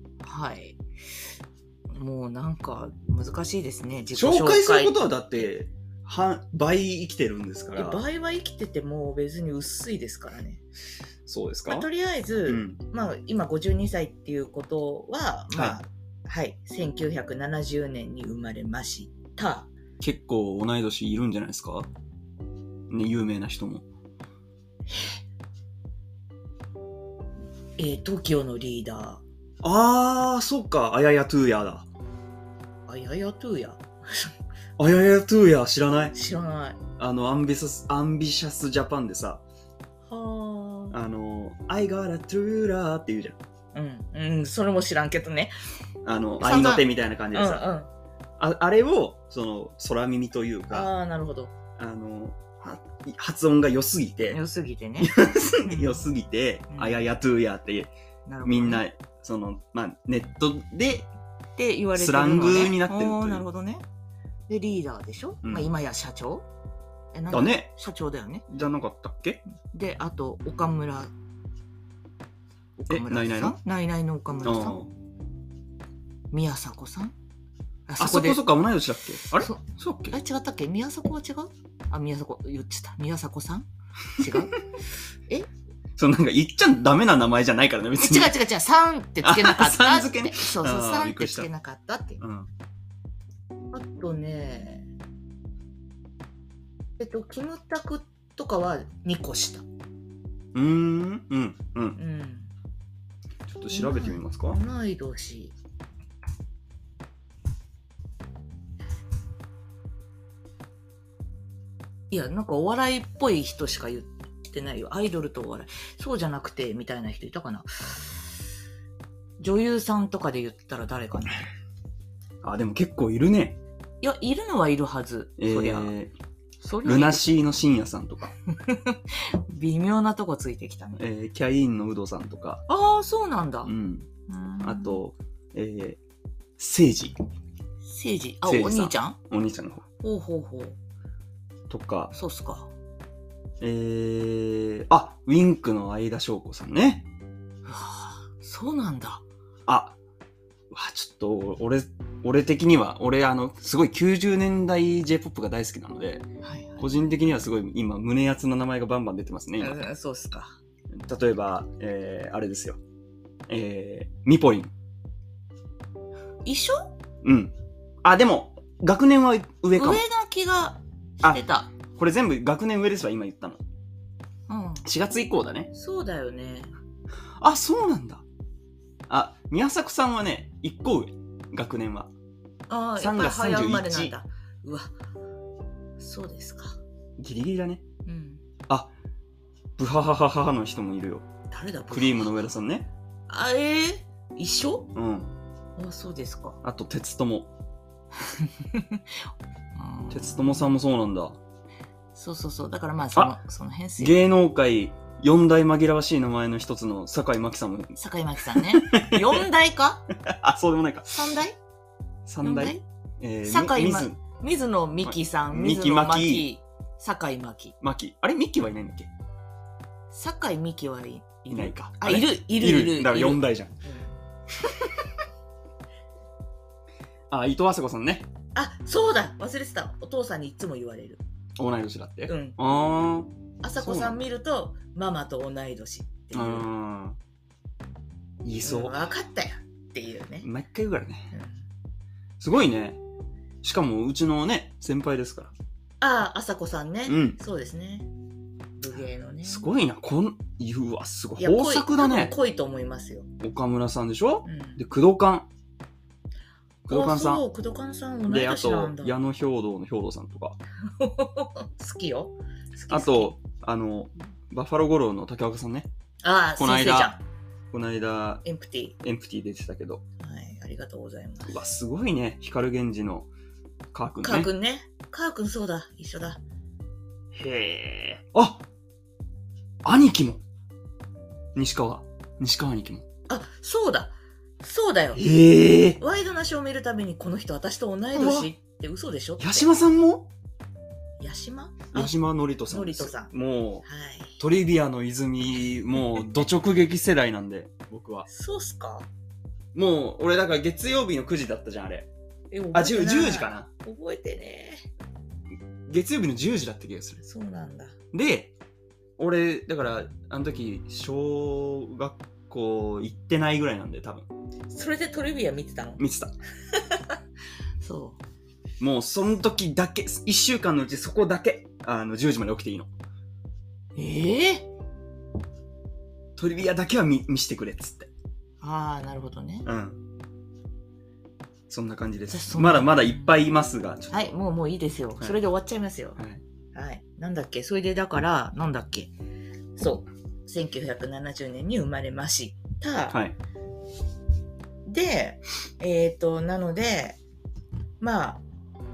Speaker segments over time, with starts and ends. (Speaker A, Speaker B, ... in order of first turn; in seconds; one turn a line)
Speaker A: 0.2-0.8
Speaker A: 1.9-5.5
Speaker B: 4.1-8.0
Speaker A: 7.7-10.6
Speaker B: 11.3-11.9
Speaker A: 11.7-19.7
Speaker B: 12.5-12.8
Speaker B: 20.0-21.9
Speaker B: 22.9-23.8
Speaker A: 24.9-25.2
Speaker A: 27.8-29.2
Speaker B: 29.6-31.9
Speaker A: 32.9-34.3
Speaker B: 34.8-36.1
Speaker A: 36.1-36.8
Speaker B: 37.0-39.4
Speaker A: 40.1-41.0
Speaker B: 40.9-43.4
Speaker A: 43.7-45.5
Speaker B: 46.0-47.7
Speaker A: 46.4-47.9
Speaker B: 48.4-50.9
Speaker A: 50.7-51.5
Speaker B: 51.8-54.4
Speaker A: 54.3-56.0
Speaker B: 55.0-57.9
Speaker A: 56.7-57.0
Speaker A: 58.2-58.8
Speaker B: 58.4-61.1
Speaker A: 61.6-63.8
Speaker B: 61.9-63.4
Speaker A: 64.5-66.5
Speaker B: 65.4-65.7
Speaker A: 67.1-68.4
Speaker B: 67.3-67.8
Speaker B: 68.5-69.4
Speaker A: 69.7-71.1
Speaker A: 72.8-74.8
Speaker B: 72.9-73.6
Speaker B: 74.4-74.9
Speaker A: 76.3-77.1
Speaker A: 77.9-78.4
Speaker B: 78.0-80.2
Speaker A: 79.4-84.6
Speaker B: 86.0-88.3
Speaker A: 88.0-92.2
Speaker B: 89.2-91.5
Speaker B: 92.2-92.5
Speaker A: 93.7-94.9
Speaker A: 97.0-99.6
Speaker B: 100.5-102.0
Speaker A: 102.0-102.5
Speaker B: 103.5-104.6
Speaker A: 103.7-105.5
Speaker A: 112.1-118.2
Speaker A: 119.4-121.5
Speaker B: 122.4-123.6
Speaker A: 124.0-125.9
Speaker B: 125.4-126.1
Speaker A: 126.6-127.3
Speaker B: 126.8-128.3
Speaker A: 128.5-131.0
Speaker B: 131.0-132.6
Speaker A: 132.7-133.7
Speaker B: 133.6-134.1
Speaker A: 134.3-135.0
Speaker B: 134.6-136.0
Speaker B: 136.6-137.2
Speaker A: 137.8-139.2
Speaker B: 138.4-139.8
Speaker A: 140.0-140.8
Speaker B: 141.7-142.1
Speaker A: 142.1-142.7
Speaker B: 143.6-147.1
Speaker A: 147.7-149.2
Speaker B: 149.7-149.9
Speaker B: 150.7-156.2
Speaker A: 156.4-157.4
Speaker B: 156.8-159.8
Speaker A: 159.6-160.6
Speaker B: 160.9-162.8
Speaker B: 163.5-164.7
Speaker A: 166.4-166.9
Speaker B: 167.2-170.0
Speaker A: 169.7-171.7
Speaker B: 171.2-173.6
Speaker A: 174.5-174.8
Speaker B: 174.8-175.7
Speaker A: 175.7-176.7
Speaker B: 177.4-178.2
Speaker B: 179.1-182.1
Speaker A: 182.7-184.9
Speaker B: 183.0-184.1
Speaker A: 186.0-186.8
Speaker B: 187.2-187.8
Speaker A: 188.1-188.4
Speaker B: 189.8-191.3
Speaker A: 191.5-192.3
Speaker B: 191.9-192.9
Speaker A: 193.3-194.9
Speaker B: 194.9-195.3
Speaker A: 195.8-196.6
Speaker B: 196.6-197.5
Speaker A: 198.2-199.2
Speaker A: 199.7-200.7
Speaker B: 200.1-201.4
Speaker A: 202.1-204.2
Speaker B: 204.0-208.0
Speaker A: 208.0-210.1
Speaker B: 208.5-209.4
Speaker B: 210.2-211.1
Speaker A: 211.1-211.6
Speaker B: 212.3-214.2
Speaker A: 212.4-212.8
Speaker A: 213.4-217.8
Speaker B: 215.0-216.5
Speaker B: 217.8-219.1
Speaker A: 220.1-224.1
Speaker B: 221.5-223.7
Speaker B: 224.6-224.9
Speaker B: 227.3-228.3
Speaker A: 228.5-231.2
Speaker B: 231.6-234.2
Speaker A: 232.3-232.6
Speaker A: 233.6-236.7
Speaker B: 236.3-237.2
Speaker B: 238.4-239.0
Speaker A: 238.6-240.5
Speaker B: 240.4-241.3
Speaker A: 241.3-241.6
Speaker B: 242.4-243.0
Speaker B: 243.6-245.5
Speaker A: 246.0-248.1
Speaker B: 247.1-247.4
Speaker A: 248.8-249.7
Speaker B: 249.4-252.3
Speaker A: 251.4-253.3
Speaker B: 253.4-255.5
Speaker A: 254.4-254.8
Speaker B: 256.8-257.4
Speaker A: 256.9-259.1
Speaker B: 258.3-260.6
Speaker A: 261.0-263.3
Speaker B: 262.9-265.9
Speaker A: 266.2-267.2
Speaker B: 266.6-267.1
Speaker B: 267.7-268.4
Speaker A: 268.4-268.9
Speaker B: 269.0-270.0
Speaker A: 270.2-271.6
Speaker B: 271.4-273.3
Speaker B: 273.9-274.5
Speaker A: 274.2-276.4
Speaker B: 277.3-278.6
Speaker B: 279.8-280.4
Speaker B: 281.5-283.1
Speaker A: 283.3-285.2
Speaker B: 285.1-286.0
Speaker A: 286.0-289.7
Speaker B: 288.1-288.5
Speaker B: 289.4-290.3
Speaker A: 291.2-292.2
Speaker B: 291.9-293.8
Speaker A: 292.7-293.3
Speaker A: 293.8-294.4
Speaker B: 294.4-298.2
Speaker A: 298.3-299.1
Speaker B: 299.7-302.1
Speaker A: 302.5-304.8
Speaker B: 302.7-303.7
Speaker B: 305.9-307.2
Speaker A: 307.2-307.9
Speaker B: 308.1-308.5
Speaker B: 309.2-314.3
Speaker A: 314.7-316.0
Speaker B: 316.0-316.3
Speaker A: 316.7-317.1
Speaker A: 317.8-318.2
Speaker B: 318.8-322.9
Speaker A: 323.9-324.7
Speaker B: 326.4-328.1
Speaker A: 328.6-329.7
Speaker B: 329.6-330.0
Speaker B: 331.7-334.3
Speaker A: 332.3-333.4
Speaker A: 334.1-336.2
Speaker A: 336.7-339.1
Speaker A: 339.8-343.2
Speaker B: 343.1-343.4
Speaker A: 344.9-347.2
Speaker A: 348.0-348.4